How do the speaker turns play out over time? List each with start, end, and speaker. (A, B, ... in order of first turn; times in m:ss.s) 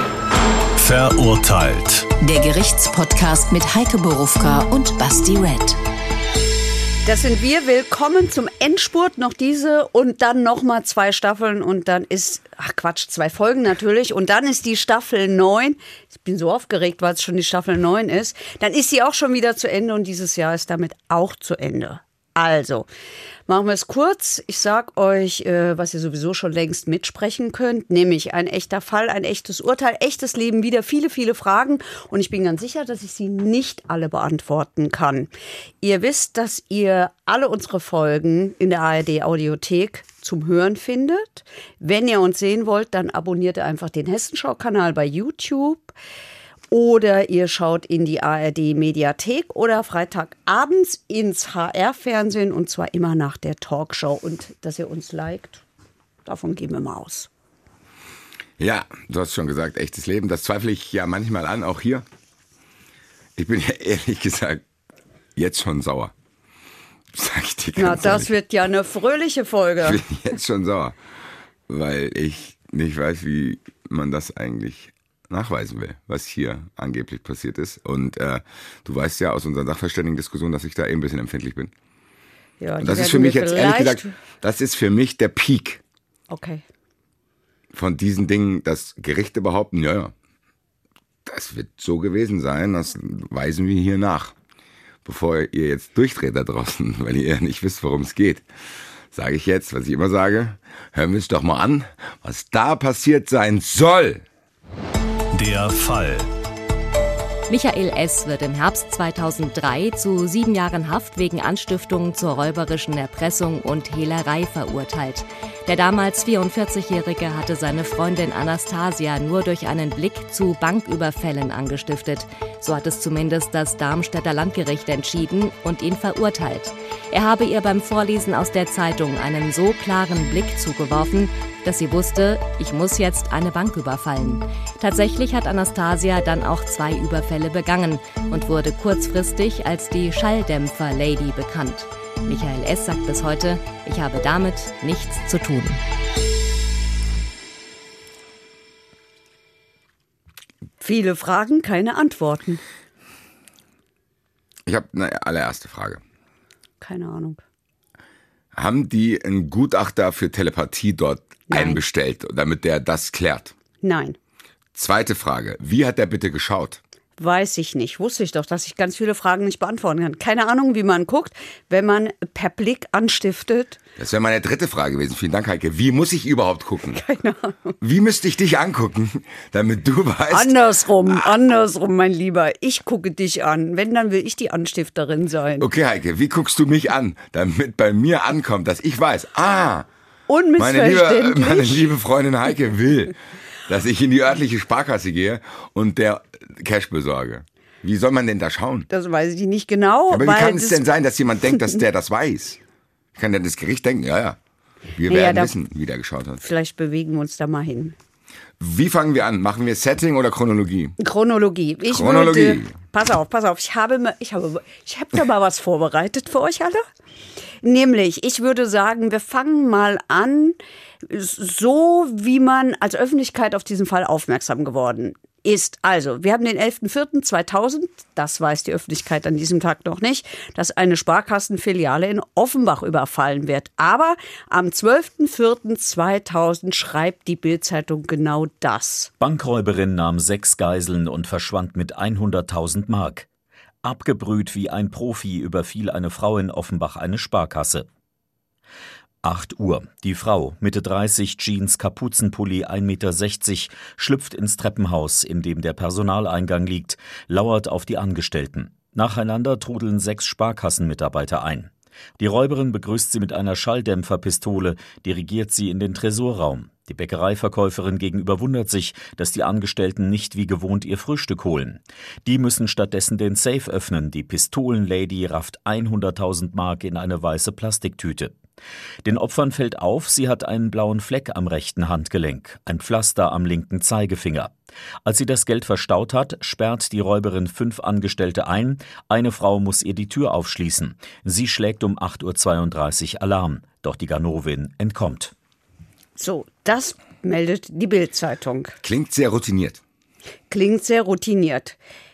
0:00.8-0:02.1 A
0:02.2-0:05.8 B
0:07.0-0:22.9 C
0:23.5-0:35.3 C
0:35.8-0:45.9 C
0:46.7-0:55.6 C
0:56.2-0:57.3 C
0:58.6-1:02.0 D
1:03.4-1:04.6 D
1:05.4-1:06.1 D
1:07.1-1:08.3 D
1:07.8-1:10.0 C
1:09.8-1:11.0 D
1:11.7-1:21.7 D
1:22.6-1:24.1 C
1:22.8-1:25.8 D
1:26.3-1:26.6 C
1:27.7-1:30.1 D
1:31.2-1:34.3 D
1:35.0-1:38.4 D
1:39.1-1:44.2 D
1:45.3-1:46.3 A
1:47.5-2:25.8 E
2:30.8-2:32.6 C
2:34.6-2:36.0 D
2:36.8-2:37.4 C
2:38.5-2:43.5 D
2:41.5-2:41.8 C
2:43.8-2:44.2 C
2:44.7-2:46.8 D
2:47.2-2:53.8 C
2:54.0-2:57.0 D
2:56.9-2:57.8 C
2:57.8-3:01.3 D
3:00.3-3:05.7 C
3:05.6-3:09.9 D
3:10.3-3:11.9 C
3:10.6-3:18.9 D
3:18.9-3:20.8 C
3:20.1-3:22.6 D
3:23.2-3:24.4 D
3:25.0-3:26.4 D
3:25.1-3:25.5 C
3:26.4-3:28.0 C
3:28.6-3:31.0 D
3:31.0-3:36.8 C
3:31.9-3:32.7 D
3:37.6-3:59.1 C
3:59.2-4:03.3 F
4:03.8-4:07.9 F
4:09.2-4:38.3 F
4:39.0-4:44.5 F
4:45.0-4:55.3 F
4:56.2-4:58.8 C
4:58.8-4:59.8 D
5:00.5-5:01.8 C